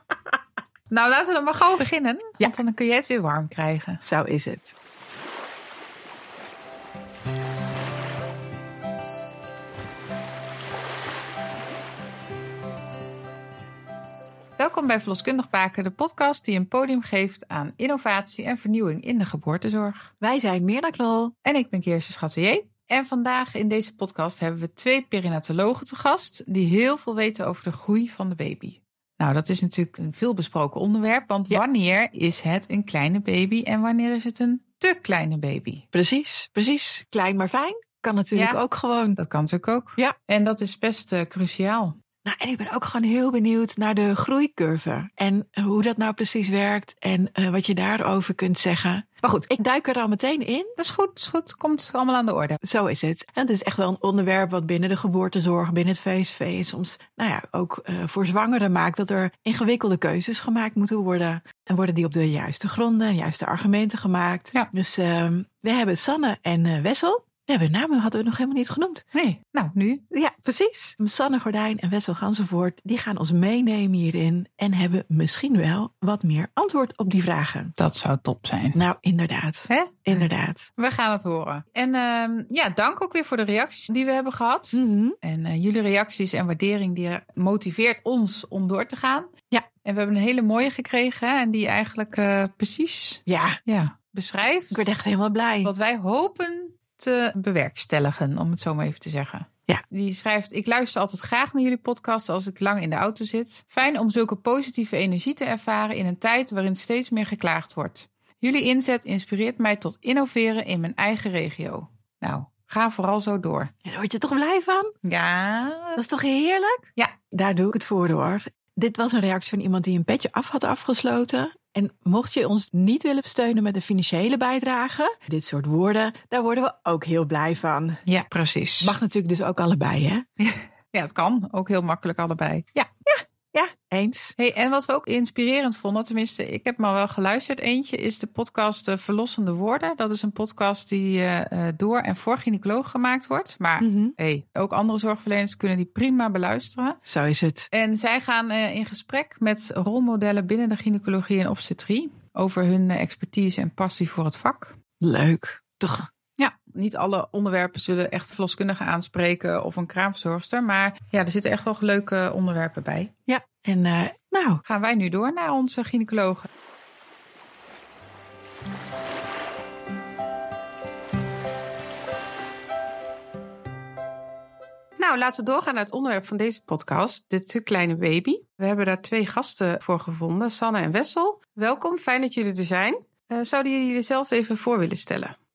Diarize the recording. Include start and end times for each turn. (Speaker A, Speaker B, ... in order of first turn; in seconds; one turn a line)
Speaker A: 0.9-4.0
Speaker B: 4.0-4.7
Speaker A: 14.6-20.1
Speaker B: 20.2-21.3
Speaker A: 21.4-35.8
Speaker B: 35.9-39.2
Speaker A: 38.3-38.6
Speaker A: 39.2-42.0
Speaker B: 42.2-50.7
Speaker A: 50.8-52.6
Speaker B: 52.6-69.0
Speaker A: 69.1-70.0
Speaker B: 70.1-77.8
Speaker A: 77.8-78.8
Speaker B: 78.7-80.7
Speaker A: 79.7-89.3
Speaker B: 84.7-85.2
Speaker A: 89.8-94.9
Speaker B: 93.3-93.6
Speaker B: 94.7-95.7
Speaker A: 95.6-113.7
Speaker B: 113.8-114.9
Speaker A: 115.0-116.0
Speaker B: 116.0-128.0
Speaker A: 128.1-128.9
Speaker B: 128.8-130.2
Speaker A: 130.4-132.9
Speaker B: 133.1-134.3
Speaker A: 134.4-147.0
Speaker B: 143.8-144.1
Speaker B: 147.1-147.7
Speaker A: 147.7-154.8
Speaker B: 155.0-156.1
Speaker A: 156.4-163.1
Speaker B: 163.3-164.6
Speaker A: 164.7-166.5
Speaker A: 175.0-185.3